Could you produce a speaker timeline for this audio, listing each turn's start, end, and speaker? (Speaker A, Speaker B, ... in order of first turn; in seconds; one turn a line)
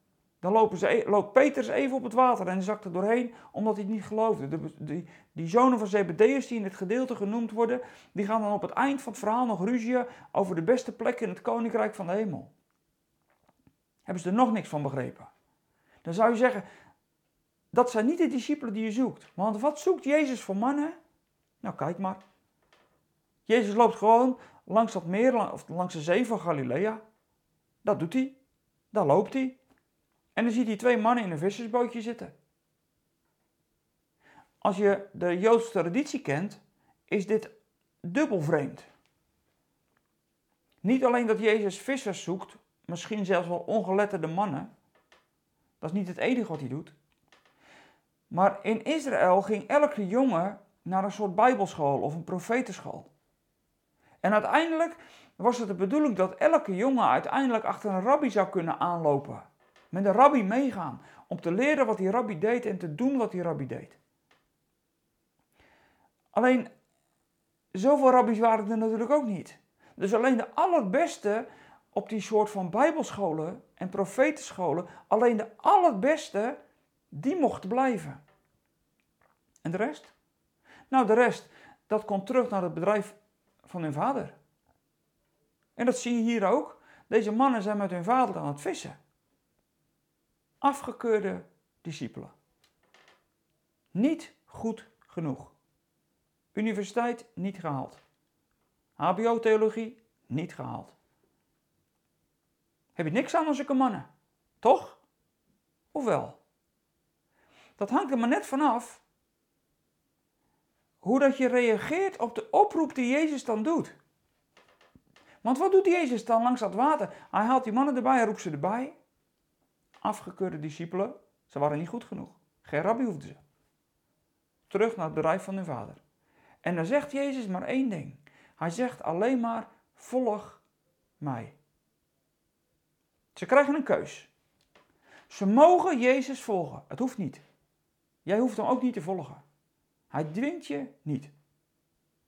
Speaker A: 0.4-12.5
Speaker A: 14.1-15.3
Speaker A: 16.0-16.6
Speaker A: 17.7-21.0
Speaker A: 21.6-22.2
Speaker A: 23.5-27.0
Speaker A: 27.8-28.4
Speaker A: 28.9-29.6
Speaker A: 30.3-32.3
Speaker A: 34.6-38.9
Speaker A: 40.8-44.7
Speaker A: 45.8-46.9
Speaker A: 48.3-53.1
Speaker A: 54.2-64.0
Speaker A: 66.3-66.7
Speaker A: 67.7-76.6
Speaker A: 77.1-78.2
Speaker A: 79.6-80.1
Speaker A: 80.9-84.3
Speaker A: 85.8-89.0
Speaker A: 90.6-92.3
Speaker A: 93.9-95.5
Speaker A: 96.5-98.0
Speaker A: 99.0-100.9
Speaker A: 102.9-104.1
Speaker A: 104.6-105.0
Speaker A: 105.9-106.4
Speaker A: 107.8-109.0
Speaker A: 111.0-114.0
Speaker A: 115.4-119.0
Speaker A: 120.0-123.4
Speaker A: 124.7-126.0
Speaker A: 126.6-130.6
Speaker A: 131.2-131.6
Speaker A: 133.3-134.3
Speaker A: 135.3-137.4
Speaker A: 138.2-139.4
Speaker A: 140.1-141.3